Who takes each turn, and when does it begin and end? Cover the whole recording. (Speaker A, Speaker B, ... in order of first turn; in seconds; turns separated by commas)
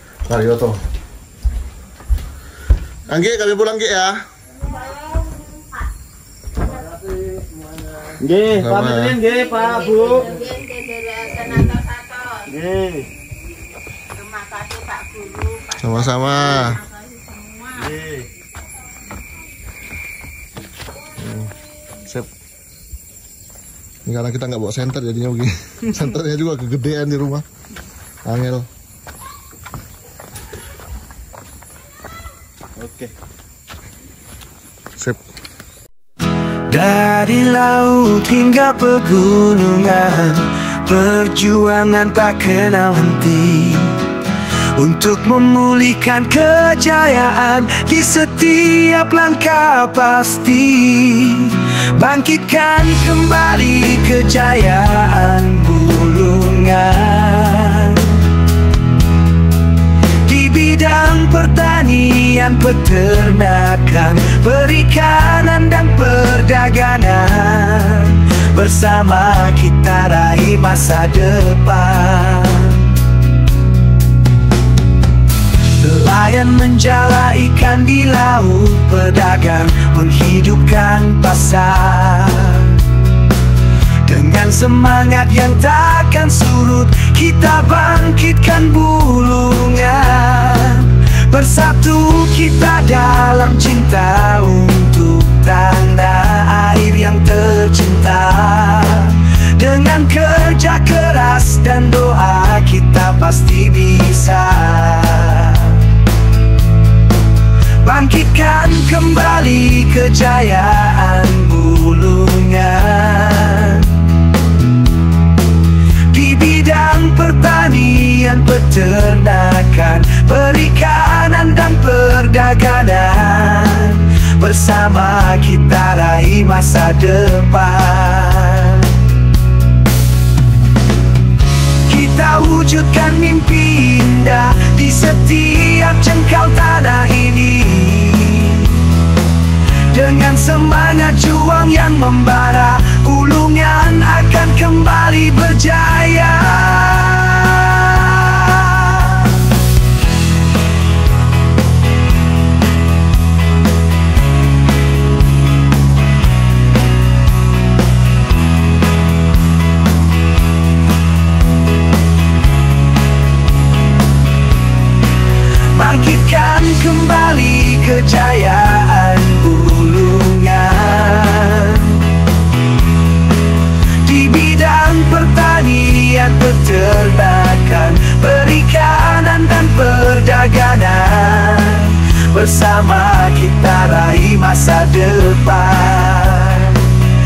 Speaker A: 0.2-0.8, Speaker A: 3.1-4.2, Speaker B: 4.8-5.6, Speaker C: 8.2-10.3, Speaker A: 8.5-9.2, Speaker B: 9.2-12.5, Speaker C: 11.5-11.8, Speaker C: 12.5-13.1, Speaker B: 14.1-18.0, Speaker A: 15.8-16.8, Speaker C: 17.8-18.3, Speaker A: 21.2-21.5, Speaker A: 24.1-27.4, Speaker A: 28.2-28.7, Speaker C: 32.8-33.1, Speaker D: 36.7-44.0, Speaker D: 44.8-58.2, Speaker D: 60.2-72.8, Speaker D: 75.8-82.7, Speaker D: 84.0-105.8, Speaker D: 107.8-113.9, Speaker D: 116.1-128.9, Speaker D: 131.9-138.8, Speaker D: 139.9-149.2, Speaker D: 165.7-172.0, Speaker D: 174.0-186.8